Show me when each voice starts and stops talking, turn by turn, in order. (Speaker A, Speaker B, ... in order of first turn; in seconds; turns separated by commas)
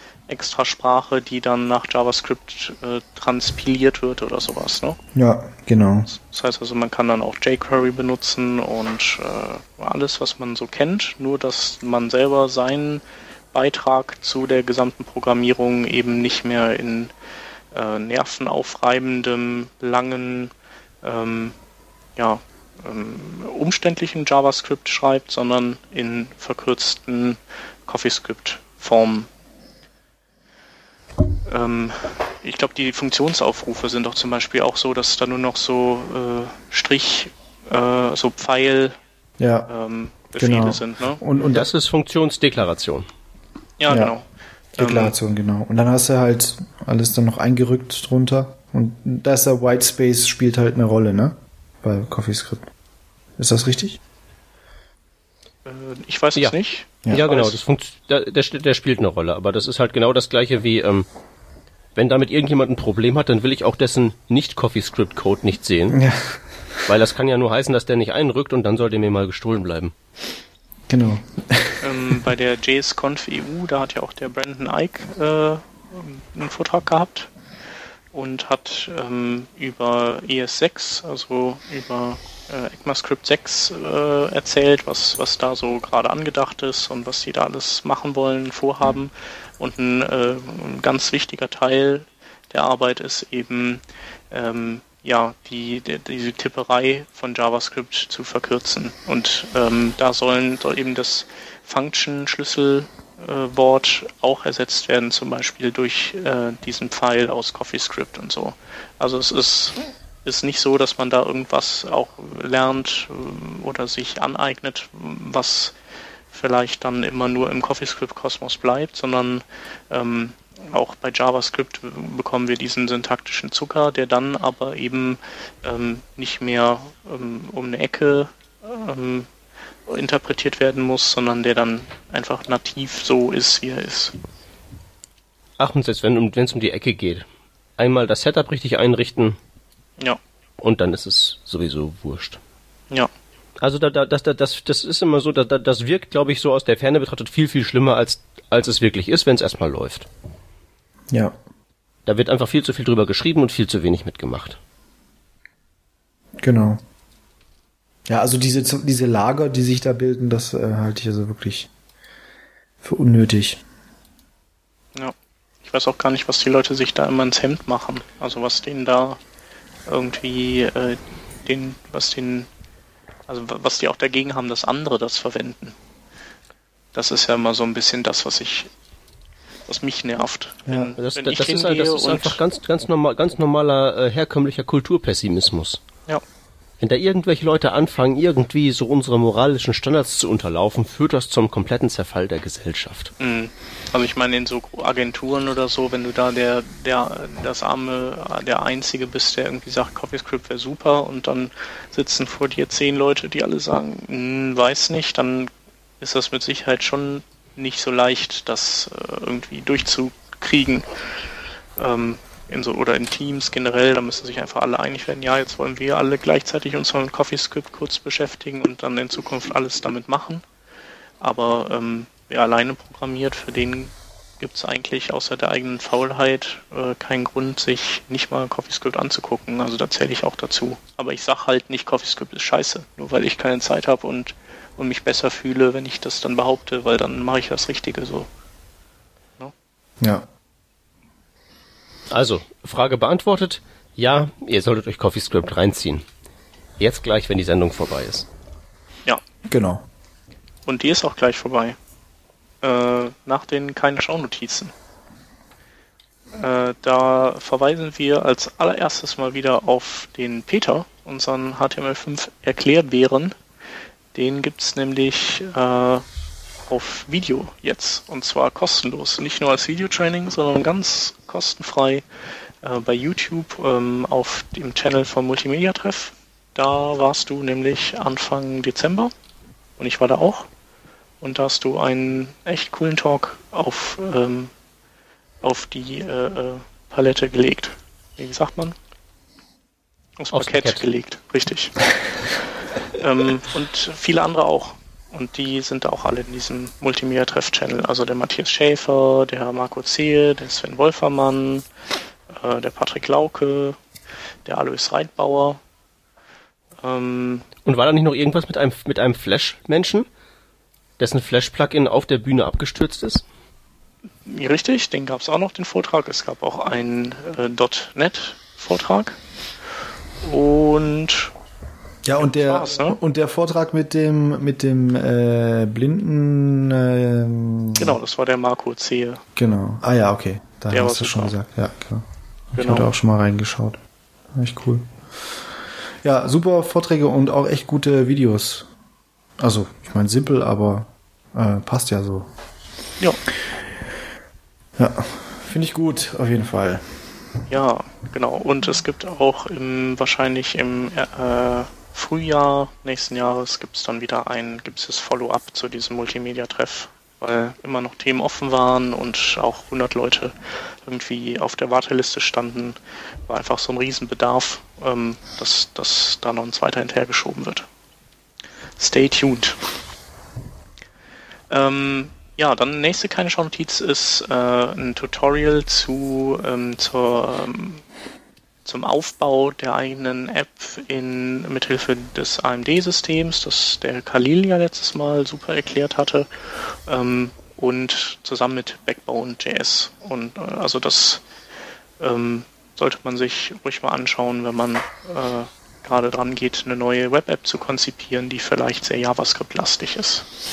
Speaker A: 0.3-5.0, Speaker B: 5.1-6.1, Speaker A: 6.1-17.1, Speaker A: 17.7-21.5, Speaker A: 22.2-29.3, Speaker A: 31.4-39.0, Speaker B: 39.4-39.7, Speaker A: 39.7-41.2, Speaker B: 40.4-41.7, Speaker C: 41.5-43.1, Speaker A: 43.8-44.2, Speaker B: 43.9-44.1, Speaker B: 44.8-52.6, Speaker A: 44.8-45.1, Speaker B: 53.4-54.0, Speaker A: 55.6-57.6, Speaker C: 57.1-61.0, Speaker C: 61.9-66.0, Speaker B: 65.9-66.8, Speaker C: 66.8-69.9, Speaker B: 70.9-72.1, Speaker A: 71.8-77.3, Speaker A: 78.1-115.7, Speaker A: 116.3-129.3, Speaker A: 129.9-134.1, Speaker C: 135.6-137.2, Speaker C: 137.8-139.4, Speaker C: 140.6-142.4, Speaker C: 143.6-150.1, Speaker C: 152.1-154.6, Speaker B: 156.4-156.8, Speaker B: 158.1-161.7, Speaker B: 162.8-163.6, Speaker A: 164.9-169.2, Speaker A: 169.8-172.5, Speaker A: 173.3-175.8, Speaker A: 176.9-178.7, Speaker A: 179.7-182.4, Speaker B: 180.7-180.9, Speaker C: 181.0-185.8, Speaker C: 186.8-193.1, Speaker A: 193.2-205.5, Speaker A: 206.0-211.0, Speaker A: 211.8-220.4, Speaker A: 221.2-238.3, Speaker B: 240.0-240.2, Speaker C: 242.1-246.0, Speaker C: 246.8-248.3, Speaker B: 249.5-249.8, Speaker A: 250.7-251.8, Speaker A: 252.6-254.7, Speaker A: 256.3-263.4, Speaker A: 264.1-266.1, Speaker A: 266.7-272.0, Speaker A: 272.6-279.1, Speaker A: 279.8-280.5, Speaker A: 281.2-284.5, Speaker A: 285.4-288.8, Speaker A: 290.2-291.8, Speaker C: 290.3-290.8, Speaker A: 292.9-301.6, Speaker A: 302.3-303.8, Speaker A: 304.4-305.6, Speaker A: 306.8-307.5, Speaker C: 307.6-310.1, Speaker C: 311.0-313.2, Speaker A: 314.2-319.2, Speaker A: 320.2-321.3, Speaker B: 322.0-328.0, Speaker A: 322.2-323.0, Speaker A: 327.8-329.2, Speaker B: 329.4-333.8, Speaker A: 330.7-331.3, Speaker A: 332.6-332.9, Speaker B: 334.3-334.9, Speaker B: 336.0-338.7, Speaker B: 339.4-342.3, Speaker B: 344.8-346.8, Speaker A: 347.5-367.6, Speaker A: 368.8-369.6, Speaker A: 371.5-377.8, Speaker A: 378.6-391.2, Speaker A: 392.0-400.2